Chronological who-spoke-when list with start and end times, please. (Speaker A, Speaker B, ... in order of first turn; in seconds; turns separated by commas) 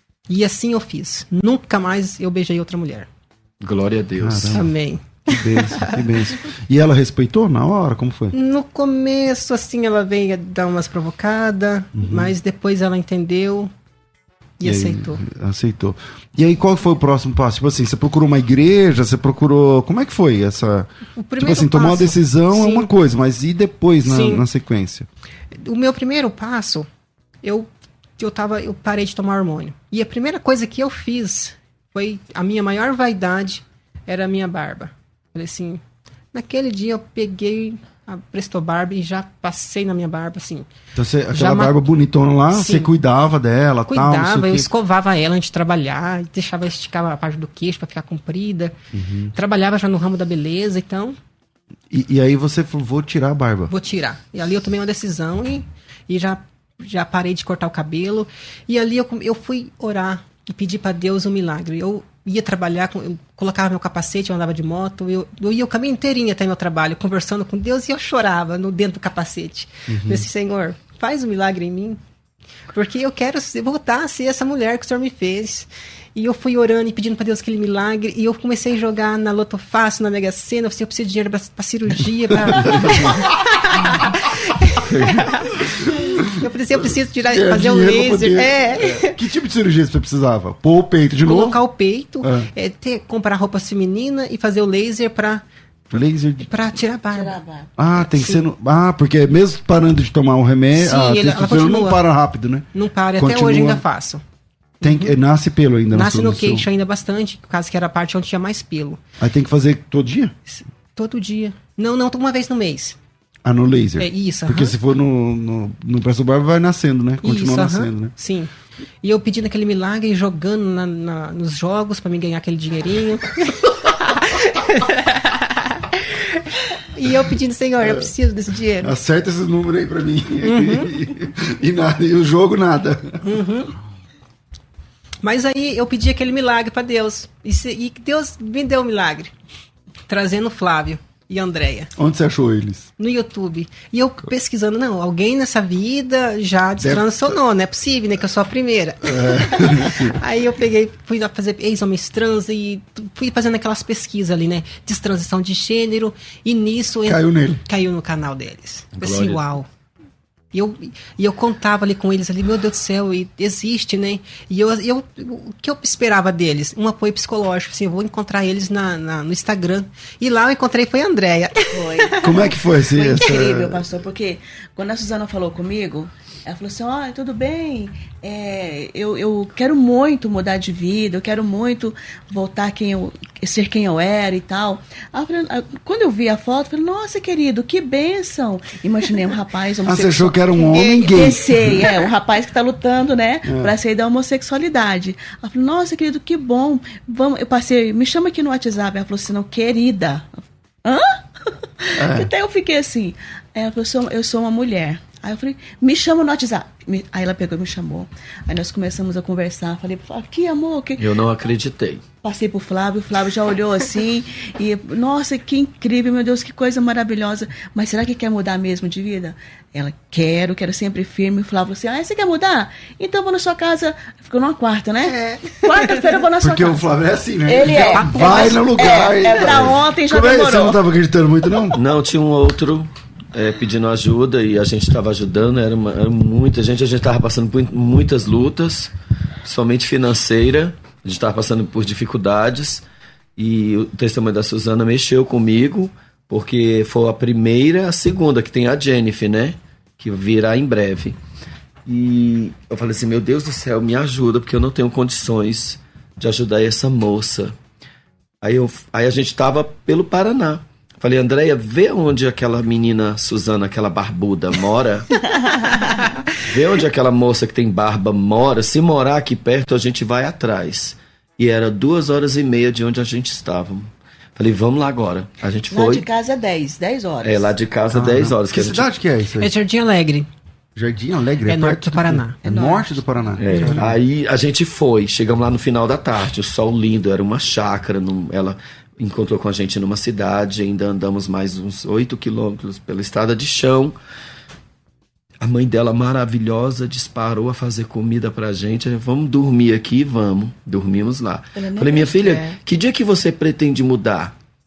Speaker A: 0.3-3.1, Speaker B: 3.6-4.6, Speaker C: 4.2-4.7, Speaker A: 4.5-6.0, Speaker C: 5.3-8.3, Speaker A: 8.3-13.7, Speaker C: 11.9-12.3, Speaker A: 14.6-15.2, Speaker C: 14.6-25.1, Speaker A: 21.2-22.9, Speaker A: 24.0-24.4, Speaker A: 25.6-26.9, Speaker A: 27.4-35.8, Speaker A: 36.3-40.6, Speaker C: 41.0-44.7, Speaker A: 41.3-41.8, Speaker A: 42.5-42.9, Speaker A: 43.9-48.8, Speaker C: 48.9-49.3, Speaker A: 49.4-51.2, Speaker C: 51.9-53.7, Speaker A: 53.7-72.0, Speaker C: 69.9-70.3, Speaker A: 72.7-85.4, Speaker C: 82.5-83.2, Speaker C: 85.6-86.3, Speaker A: 86.3-89.2, Speaker C: 87.2-91.6, Speaker A: 91.2-95.4, Speaker C: 92.2-92.5, Speaker C: 95.9-96.5, Speaker A: 96.5-97.4, Speaker D: 97.1-97.7, Speaker C: 97.8-103.8, Speaker A: 98.0-98.4, Speaker A: 100.8-102.0, Speaker A: 102.7-104.2, Speaker A: 104.8-105.1, Speaker C: 104.8-106.7, Speaker A: 105.9-109.0, Speaker C: 109.2-110.3, Speaker A: 110.5-113.0, Speaker C: 113.4-118.1, Speaker A: 114.0-114.8, Speaker A: 117.2-118.5, Speaker A: 119.0-128.9, Speaker C: 128.8-133.2, Speaker A: 130.4-130.9, Speaker A: 133.2-133.7, Speaker A: 135.2-139.3, Speaker A: 140.1-141.9, Speaker C: 142.0-142.9, Speaker A: 143.0-159.7, Speaker C: 146.8-147.4, Speaker C: 149.0-150.1, Speaker C: 157.1-157.6, Speaker B: 159.0-159.4, Speaker A: 160.5-172.2, Speaker D: 171.7-211.2, Speaker C: 172.2-173.9, Speaker C: 189.8-192.0, Speaker C: 193.4-193.7, Speaker C: 202.0-202.3, Speaker B: 211.0-212.0, Speaker D: 212.2-226.9, Speaker A: 225.1-226.0, Speaker C: 226.4-231.8, Speaker D: 227.4-230.8, Speaker A: 228.0-228.5, Speaker B: 229.4-229.7, Speaker B: 231.7-238.9, Speaker B: 239.4-242.8, Speaker B: 243.4-251.2, Speaker B: 251.9-257.5, Speaker B: 258.4-265.1, Speaker D: 265.4-266.1, Speaker B: 266.4-276.1, Speaker D: 275.7-277.5, Speaker B: 277.2-278.9, Speaker C: 277.9-279.5, Speaker A: 279.4-280.3, Speaker C: 280.8-284.0, Speaker A: 281.5-282.4, Speaker D: 282.4-282.9, Speaker B: 283.4-294.0, Speaker D: 283.5-283.8, Speaker B: 295.4-304.4, Speaker D: 301.6-302.6